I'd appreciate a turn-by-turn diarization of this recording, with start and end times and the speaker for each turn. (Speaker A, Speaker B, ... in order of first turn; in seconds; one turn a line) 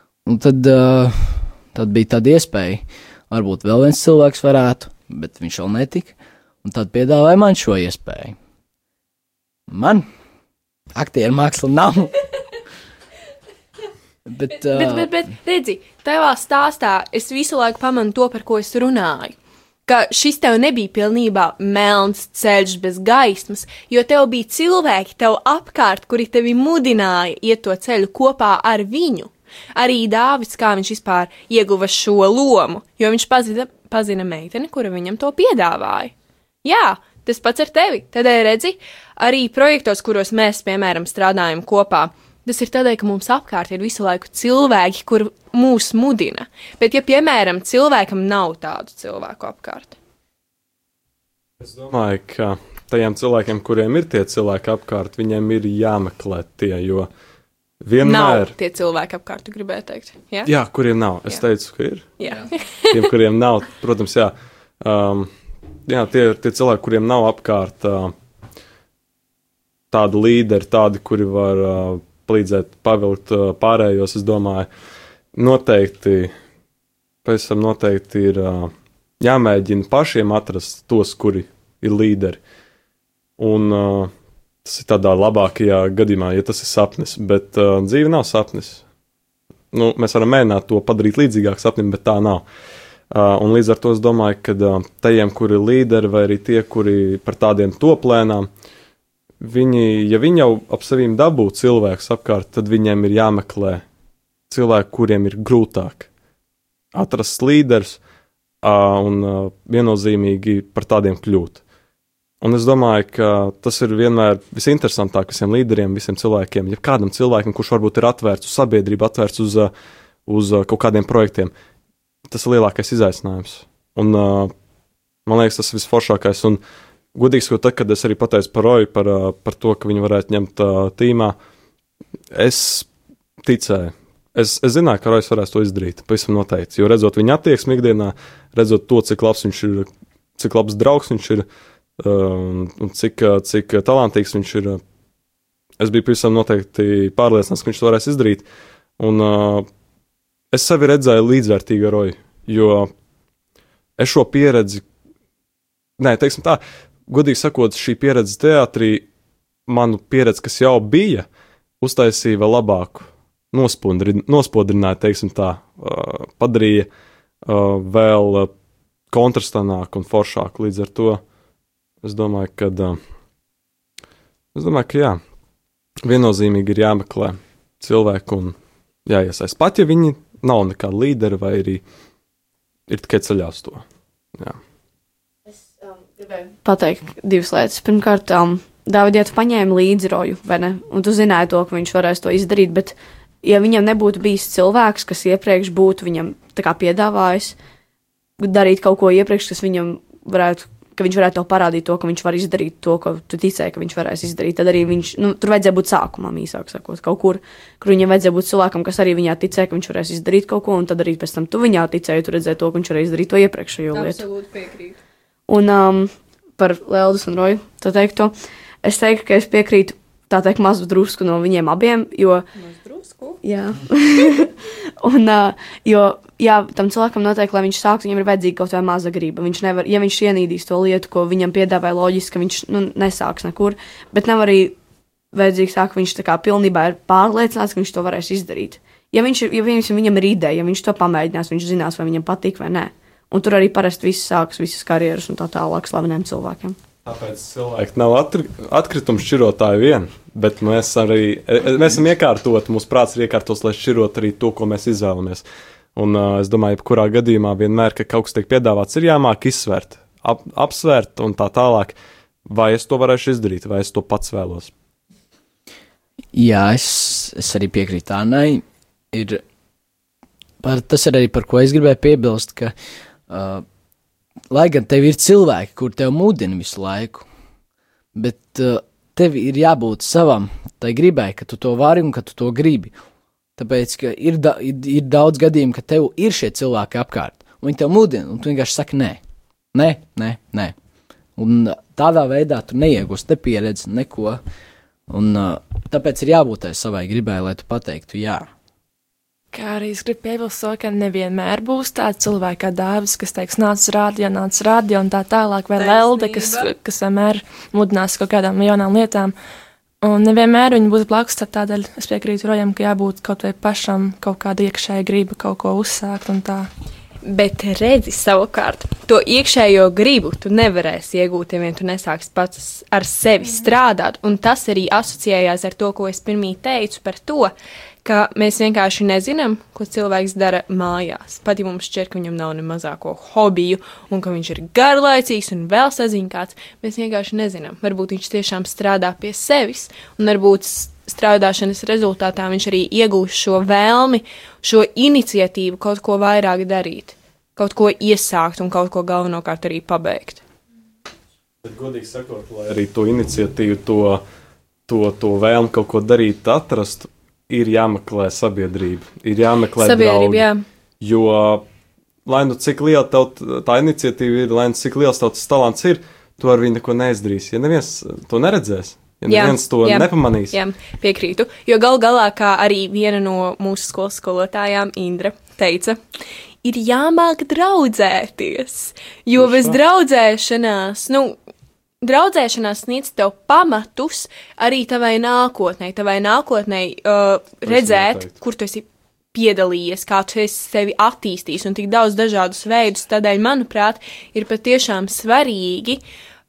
Speaker A: 0.2-8.3
Speaker A: 9.7-10.0
Speaker A: 10.9-12.2
Speaker A: 14.3-15.1
Speaker B: 14.5-19.3
Speaker B: 19.9-36.1
Speaker B: 36.6-50.0
Speaker C: 51.6-57.1
Speaker C: 57.8-58.5
Speaker B: 58.0-60.5
Speaker C: 60.5-62.1
Speaker B: 62.2-63.0
Speaker C: 62.9-65.3
Speaker C: 65.8-68.1
Speaker C: 69.9-74.7
Speaker C: 75.3-76.3
Speaker C: 77.2-82.4
Speaker C: 83.4-84.1
Speaker C: 84.6-88.8
Speaker C: 89.7-92.4
Speaker C: 93.1-98.5
Speaker C: 99.4-103.8
Speaker C: 104.5-106.1
Speaker C: 106.9-108.0
Speaker C: 108.6-111.6
Speaker C: 112.4-119.7
Speaker C: 120.3-121.5
Speaker C: 122.3-124.5
Speaker C: 125.2-126.6
Speaker C: 127.1-131.3
Speaker C: 132.3-132.9
Speaker C: 133.4-141.4
Speaker C: 142.0-144.8
Speaker C: 145.8-148.4
Speaker C: 149.0-149.7
Speaker C: 150.5-152.9
Speaker C: 154.0-154.8
Speaker C: 156.0-159.1
Speaker C: 159.7-161.2
Speaker C: 161.8-166.9
Speaker C: 167.4-168.5
Speaker C: 169.1-171.2
Speaker C: 172.0-173.0
Speaker C: 174.5-175.2
Speaker C: 176.0-178.5
Speaker C: 179.1-181.8
Speaker C: 182.9-183.8
Speaker D: 185.9-197.6
Speaker D: 198.4-214.2
Speaker B: 213.9-215.0
Speaker D: 215.5-218.3
Speaker D: 218.8-222.4
Speaker B: 222.5-223.4
Speaker D: 223.4-234.8
Speaker D: 235.3-246.8
Speaker C: 247.0-255.4
Speaker C: 255.9-264.7
Speaker A: 266.3-269.4
Speaker A: 270.6-272.7
Speaker A: 273.3-273.6
Speaker A: 274.5-277.2
Speaker A: 278.1-282.9
Speaker A: 283.6-289.2
Speaker A: 289.7-290.7
Speaker A: 291.4-294.4
Speaker A: 295.1-298.5
Speaker E: 299.5-309.3
Speaker B: 305.8-306.7
Speaker E: 310.0-316.7
Speaker B: 317.2-327.5
Speaker B: 328.0-350.4
Speaker C: 351.6-354.2
Speaker C: 354.9-360.5
Speaker B: 359.8-360.6
Speaker C: 361.0-361.6
Speaker C: 362.2-370.6
Speaker B: 369.3-376.0
Speaker B: 376.6-381.4
Speaker C: 379.4-379.8
Speaker B: 382.0-396.0
Speaker C: 387.6-388.3